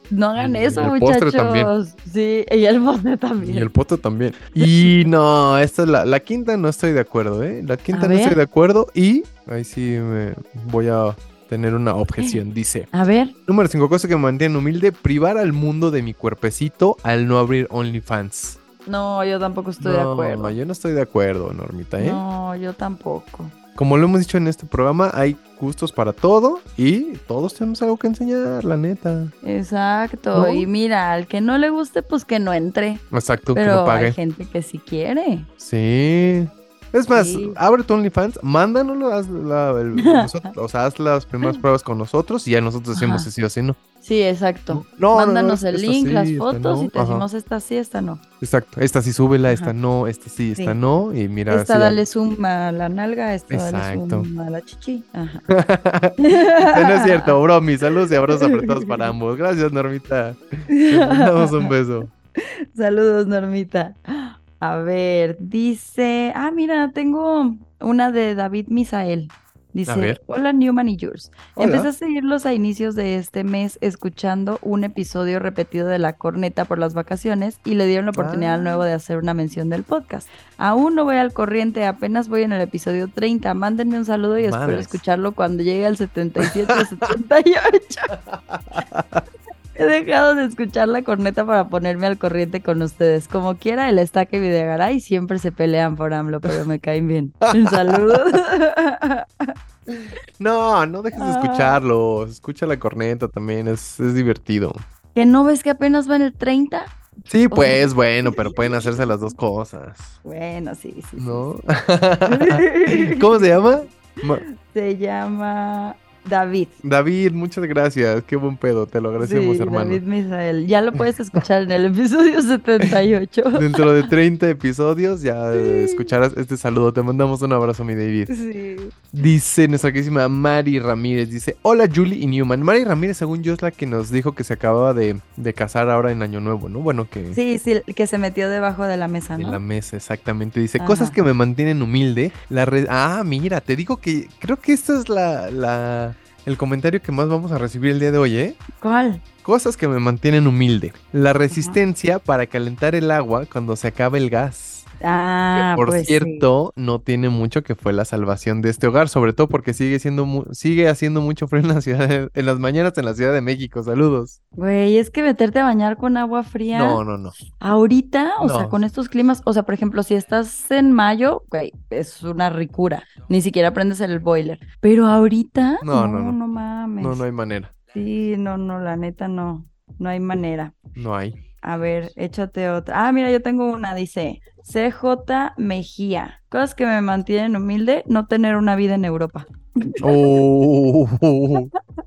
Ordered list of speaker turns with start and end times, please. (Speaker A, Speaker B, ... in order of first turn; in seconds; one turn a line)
Speaker A: 0.1-3.7
Speaker B: 0.4-1.7
Speaker B: 3.4-12.9
Speaker A: 4.6-5.0
Speaker A: 7.9-8.4
Speaker A: 12.9-13.3
Speaker B: 13.5-18.6
Speaker A: 18.9-20.6
Speaker B: 19.8-22.2
Speaker A: 22.0-23.6
Speaker B: 23.8-29.3
Speaker A: 29.4-35.5
Speaker B: 30.3-30.7
Speaker B: 33.1-34.2
Speaker B: 35.6-43.8
Speaker A: 37.1-37.6
Speaker A: 40.0-40.5
Speaker A: 42.9-43.3
Speaker A: 44.0-48.2
Speaker B: 44.7-47.3
Speaker B: 48.4-52.0
Speaker A: 51.5-55.5
Speaker B: 53.5-54.3
Speaker B: 55.5-62.1
Speaker A: 56.2-59.1
Speaker A: 60.7-61.7
Speaker A: 62.4-88.1
Speaker B: 69.9-70.2
Speaker B: 71.5-71.9
Speaker B: 78.2-78.8
Speaker B: 84.4-85.0
Speaker B: 86.4-86.8
Speaker B: 88.1-89.2
Speaker A: 89.8-99.5
Speaker B: 97.4-98.1
Speaker B: 99.9-104.8
Speaker A: 101.1-101.8
Speaker A: 105.2-106.9
Speaker B: 107.3-110.2
Speaker A: 107.5-108.9
Speaker A: 110.2-111.4
Speaker B: 111.2-114.4
Speaker A: 112.3-113.5
Speaker A: 114.5-116.8
Speaker B: 116.8-120.0
Speaker A: 119.2-123.9
Speaker B: 123.5-128.3
Speaker A: 125.5-126.1
Speaker A: 128.3-129.0
Speaker B: 129.1-137.4
Speaker A: 137.3-139.6
Speaker B: 139.4-148.6
Speaker A: 140.8-141.2
Speaker A: 148.8-149.2
Speaker B: 149.4-154.9
Speaker A: 151.5-151.8
Speaker A: 155.0-156.5
Speaker B: 155.6-164.4
Speaker A: 164.6-167.0
Speaker B: 166.7-167.4
Speaker A: 167.6-177.2
Speaker B: 168.4-168.8
Speaker B: 175.8-176.4
Speaker B: 177.0-177.7
Speaker A: 177.9-180.7
Speaker B: 180.9-181.4
Speaker A: 181.6-190.2
Speaker B: 190.0-191.7